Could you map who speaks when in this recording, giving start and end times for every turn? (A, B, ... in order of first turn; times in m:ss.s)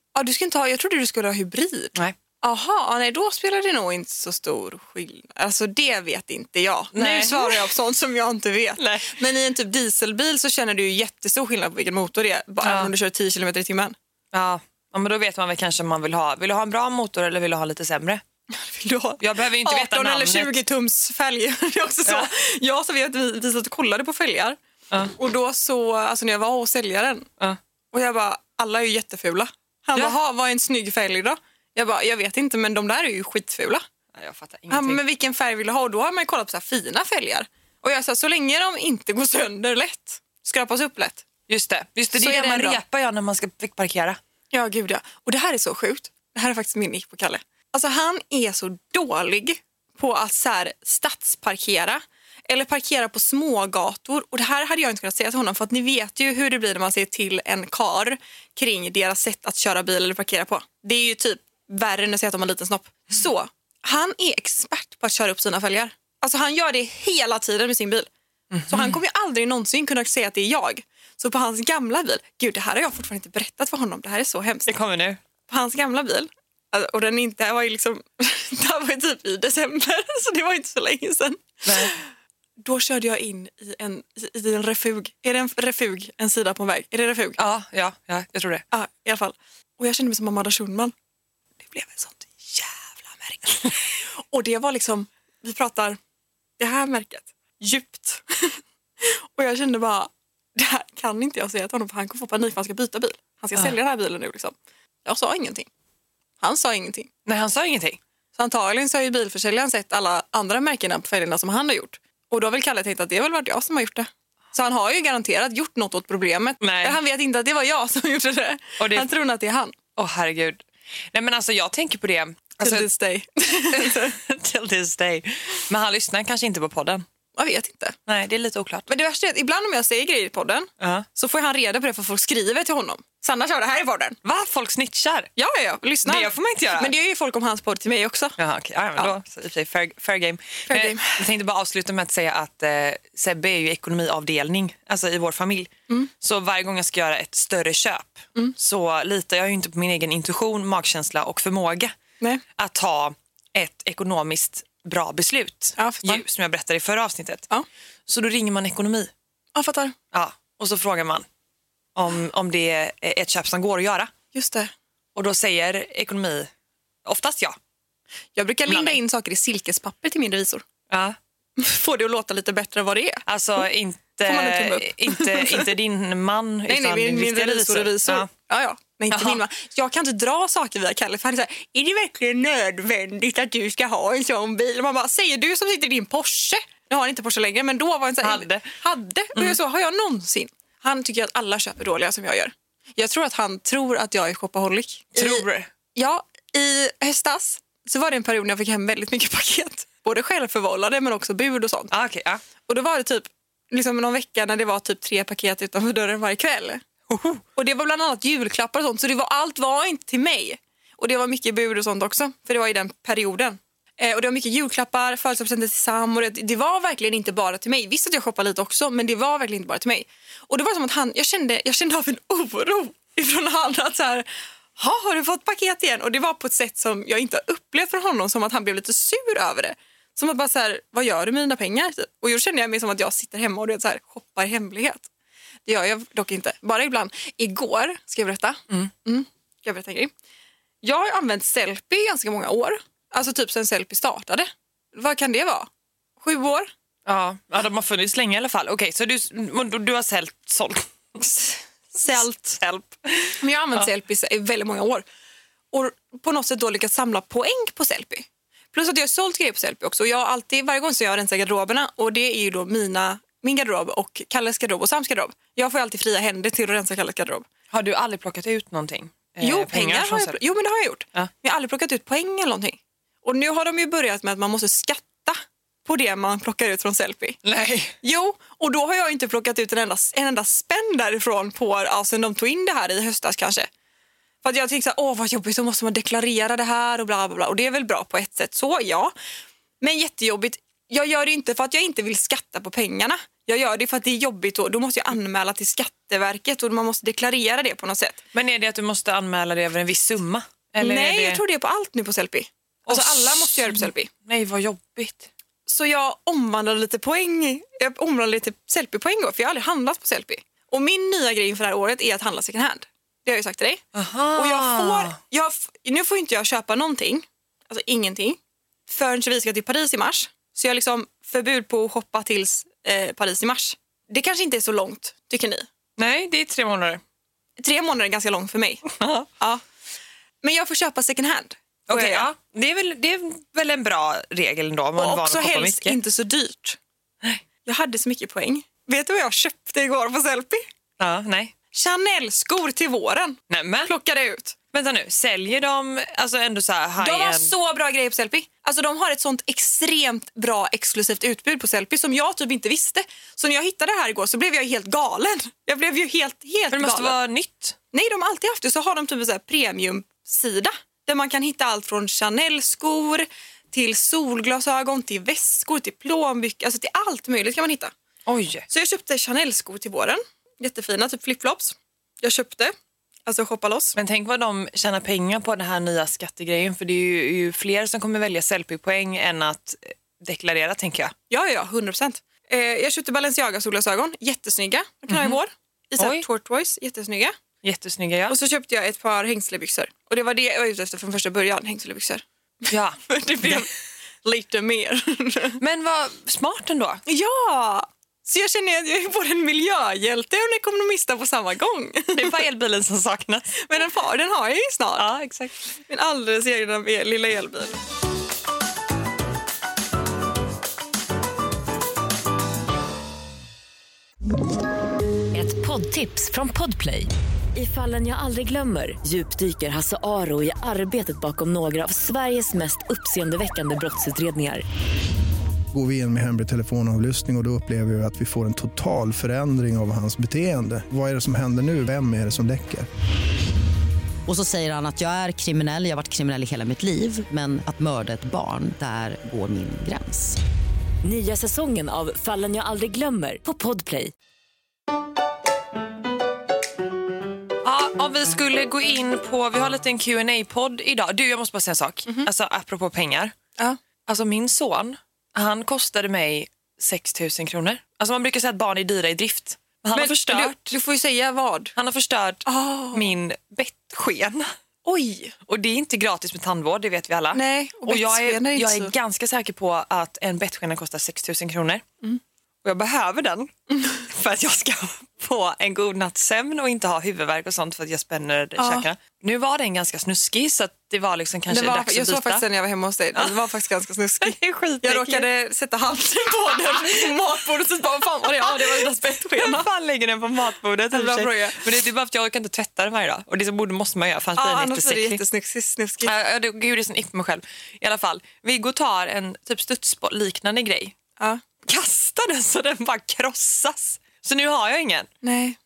0:00.1-0:13.9 A
0:06.9-0:07.7 B
0:08.8-0:09.2 B
0:12.6-0:12.9 B
0:14.3-0:18.2 B
0:18.5-0:24.6 A
0:19.2-0:20.6 B
0:22.0-0:22.3 B
0:24.9-0:25.1 B
0:25.1-0:27.3 A
0:27.9-0:33.8 A
0:34.1-0:35.0 B
0:34.7-0:41.2 A
0:41.5-0:44.2 B
0:42.1-0:42.8 A
0:44.5-1:08.1 A
1:08.5-1:09.0 B
1:08.7-1:14.7 A
1:14.7-1:15.2 B
1:15.5-1:22.1 A
1:21.6-1:21.9 B
1:22.6-1:27.4 A
1:27.4-1:28.6 B
1:28.7-1:30.9 A
1:31.7-1:32.4 B
1:31.7-1:36.0 A
1:36.6-1:45.7 A
1:46.4-1:47.1 A
1:47.2-1:48.0 B
1:48.3-1:59.7 A
1:56.6-1:57.0 B
1:58.8-1:59.1 B
2:00.0-2:02.9 B
2:02.6-2:04.1 A
2:03.7-2:07.0 B
2:07.3-2:08.0 A
2:08.1-2:08.9 B
2:08.9-2:14.2 A
2:10.8-2:11.1 B
2:14.2-2:15.3 B
2:15.4-2:18.4 A
2:16.0-2:16.9 B
2:18.4-2:32.0 B
2:20.7-2:21.2 A
2:32.5-2:37.5 B
2:35.8-2:36.2 A
2:38.1-2:39.1 B
2:39.5-2:39.9 A
2:40.1-2:41.2 B
2:41.9-2:44.1 B
2:44.3-2:44.7 A
2:45.1-2:46.5 B
2:47.0-2:47.6 B
2:48.3-2:50.6 A
2:48.7-2:49.0 B
2:50.9-2:51.2 B
2:51.6-2:53.2 A
2:53.2-2:58.3 B
2:54.2-2:55.7 A
2:56.7-3:21.9 A
2:59.1-2:59.4 B
3:08.2-3:08.7 B
3:15.1-3:15.7 B
3:21.9-3:22.4 B
3:22.7-3:26.8 A
3:27.1-3:27.4 B
3:27.6-3:55.1 A
3:55.6-4:00.1 A
4:00.8-4:06.7 A
4:07.0-4:11.3 B
4:11.4-4:12.6 A
4:12.1-4:13.8 B
4:13.4-4:15.0 A
4:15.7-4:27.4 A
4:27.7-4:30.4 B
4:29.4-4:37.4 A
4:37.4-4:38.0 B
4:38.0-4:43.7 A
4:44.4-4:49.1 A
4:49.8-4:58.2 A
4:58.3-5:01.4 B
5:00.8-5:04.1 A
5:02.8-5:05.3 B
5:05.7-5:13.8 A
5:13.9-5:15.2 B
5:14.3-5:25.6 A
5:26.0-5:27.0 B
5:27.6-5:29.6 A
5:28.9-5:29.3 B
5:30.4-5:32.3 A
5:31.9-5:36.0 B
5:35.0-5:36.8 A
5:37.6-5:40.6 A
5:41.0-5:41.5 B
5:41.7-5:44.5 A
5:43.5-5:43.9 B
5:44.7-5:47.5 B
5:47.0-5:57.2 A
5:56.7-5:57.8 B
5:57.9-6:07.9 A
6:08.2-6:08.7 B
6:08.7-6:12.7 A
6:13.2-6:14.0 A
6:14.0-6:21.1 B
6:21.3-6:27.3 A
6:25.1-6:25.4 B
6:26.0-6:26.2 B
6:27.6-6:28.4 B
6:28.3-6:32.2 A
6:32.7-6:33.6 B
6:33.1-6:33.7 A
6:34.2-6:35.6 A
6:35.6-6:37.0 B
6:37.0-6:42.4 A
6:42.1-6:43.7 B
6:43.6-6:45.1 A
6:45.0-6:45.6 B
6:45.8-6:47.8 A
6:55.3-7:04.6 C
7:05.7-7:12.9 D
7:14.3-7:20.4 E
7:21.0-7:24.1 C
7:27.6-7:33.3 B
7:34.1-7:40.8 B
7:39.9-7:41.7 A
7:41.8-7:44.5 B
7:42.4-7:43.1 A
7:44.8-7:45.3 A
7:45.4-7:51.8 B
7:47.3-7:48.9 A
7:52.6-8:02.4 B
7:53.7-7:54.0 A
7:58.6-7:58.9 A
8:01.5-8:09.7 A
8:03.1-8:03.4 B
8:04.2-8:05.3 B
8:06.6-8:07.1 B
8:08.4-8:15.2 B
8:10.9-8:11.6 A
8:14.4-8:16.1 A
8:16.0-8:20.9 B
8:21.6-8:25.1 B
8:25.2-8:25.6 A